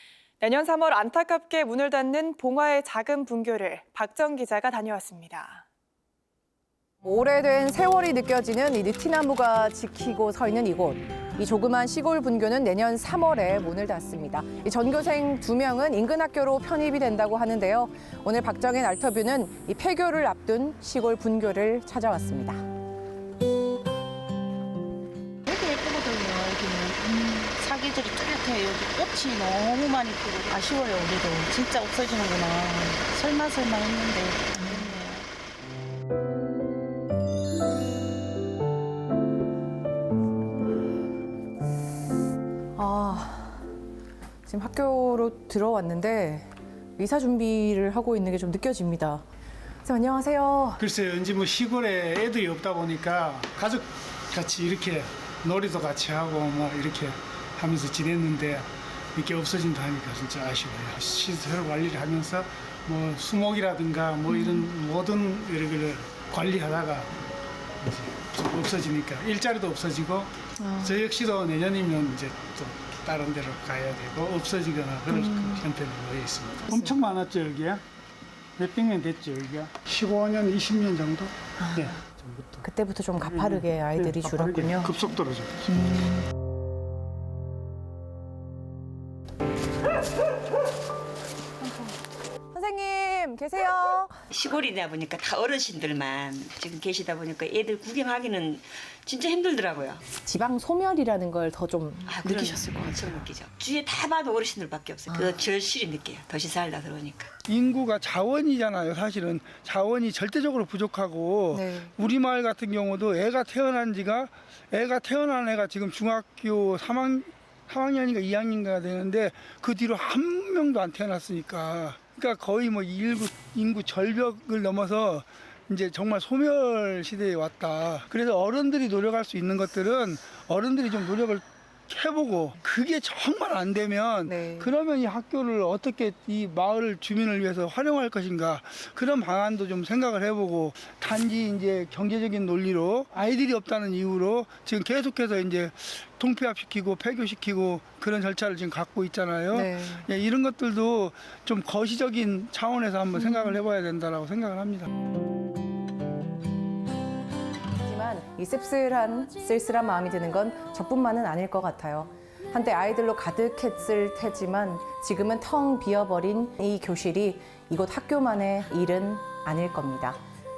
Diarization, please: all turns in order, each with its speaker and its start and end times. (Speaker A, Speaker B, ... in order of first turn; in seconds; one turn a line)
Speaker A: 0.4-5.6
Speaker B: 7.0-22.6
Speaker C: 25.5-35.3
Speaker B: 42.8-43.7
Speaker B: 44.5-49.2
Speaker B: 49.9-50.8
Speaker D: 50.8-67.1
Speaker B: 64.3-64.7
Speaker D: 67.8-77.8
Speaker B: 70.6-71.0
Speaker B: 75.1-75.6
Speaker D: 78.6-82.7
Speaker B: 82.6-85.0
Speaker D: 83.2-85.7
Speaker B: 85.7-86.2
Speaker B: 91.6-92.0
Speaker B: 92.5-94.2
Speaker E: 94.3-100.0
Speaker B: 100.2-103.2
Speaker E: 102.3-102.7
Speaker E: 103.2-107.3
Speaker B: 105.1-105.4
Speaker F: 107.5-154.9
Speaker B: 111.5-111.9
Speaker B: 134.3-134.7
Speaker B: 149.5-150.1
Speaker B: 157.8-170.2